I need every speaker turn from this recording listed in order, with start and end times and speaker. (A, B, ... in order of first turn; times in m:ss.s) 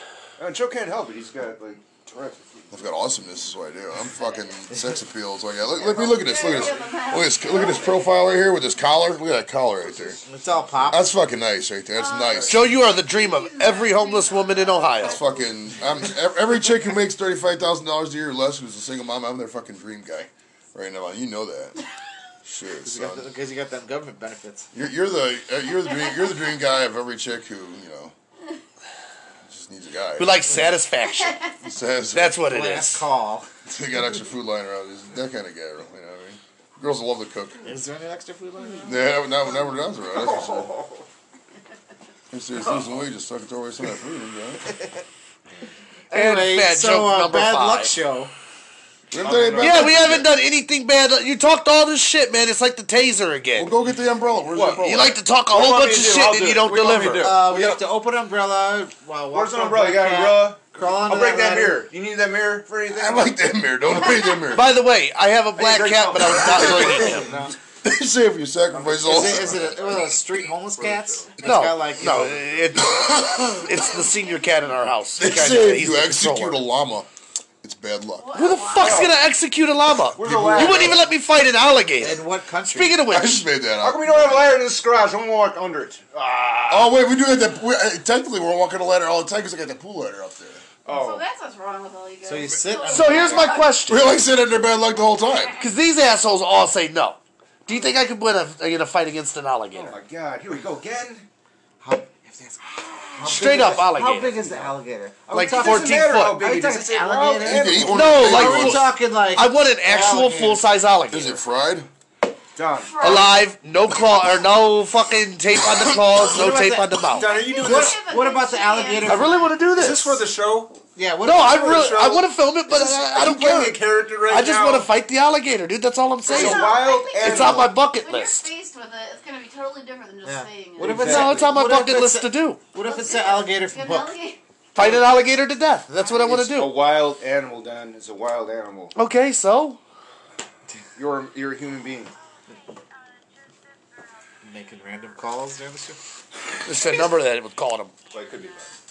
0:00.4-0:02.7 A
0:02.7-0:10.2 B
0:05.8-0:07.0 A
0:06.0-0:08.0 C
0:09.9-0:11.0 A
0:10.3-0:11.1 D
0:10.9-0:12.7 B
0:12.0-0:16.1 C
0:12.5-0:15.2 E
0:15.0-0:21.8 B
0:22.4-0:23.3 B
0:22.8-0:24.7 D
0:24.7-0:28.1 B
0:29.4-0:30.6 B
0:30.2-0:31.4 E
0:31.0-0:31.6 C
0:31.6-0:32.4 B
0:32.1-0:33.1 E
0:32.4-0:33.5 D
0:33.7-0:37.7 B
0:37.6-0:39.1 D
0:38.8-0:40.7 B
0:40.2-0:41.0 A
0:42.3-0:44.6 B
0:46.1-0:48.3 D
0:46.1-0:48.0 E
0:49.1-0:50.3 B
0:49.2-0:50.0 A
0:49.6-0:53.7 E
0:53.6-0:55.1 B
0:54.5-0:54.9 A
0:54.8-0:57.4 E
0:55.5-0:57.8 A
0:57.2-1:01.9 D
0:59.3-1:03.4 A
1:02.9-1:04.7 B
1:04.5-1:07.3 E
1:05.6-1:07.6 A
1:06.4-1:07.0 B
1:07.1-1:07.5 D
1:07.8-1:10.1 B
1:08.7-1:10.1 A
1:09.0-1:12.5 D
1:10.8-1:11.4 A
1:11.4-1:16.6 E
1:12.9-1:13.5 B
1:15.2-1:17.1 B
1:17.6-1:18.3 B
1:18.2-1:19.2 C
1:18.3-1:23.5 E
1:18.8-1:19.2 A
1:20.2-1:21.0 A
1:20.2-1:21.0 B
1:22.0-1:23.0 D
1:23.1-1:24.4 B
1:23.8-1:26.9 A
1:26.7-1:30.6 B
1:30.8-1:31.2 A
1:30.9-1:34.0 C
1:32.2-1:33.7 D
1:32.9-1:34.2 E
1:33.9-1:35.6 B
1:35.2-1:35.6 C
1:35.6-1:40.0 E
1:39.7-1:41.3 A
1:41.8-1:50.6 D
1:43.2-1:44.7 A
1:43.2-1:44.5 E
1:45.3-1:48.2 A
1:45.3-1:46.4 E
1:47.4-1:48.9 B
1:47.9-1:51.4 E
1:51.1-1:51.9 B
1:52.6-1:53.3 A
1:52.8-1:53.4 C
1:53.0-1:57.4 E
1:56.2-1:59.5 D
1:57.1-1:58.0 A
1:57.2-1:59.4 C
1:59.0-2:00.2 E
1:59.7-2:00.8 A
2:01.0-2:01.9 D
2:01.2-2:08.5 E
2:01.4-2:04.9 A
2:06.3-2:07.8 A
2:06.3-2:11.1 C
2:10.2-2:14.1 D
2:10.8-2:11.5 A
2:10.9-2:12.6 E
2:12.8-2:14.4 C
2:14.8-2:16.8 E
2:14.8-2:15.1 A
2:15.9-2:16.4 D
2:16.2-2:18.9 A
2:19.0-2:19.8 E
2:21.0-2:22.1 A
2:24.4-2:26.0 D
2:26.6-2:27.9 E
2:28.1-2:28.7 A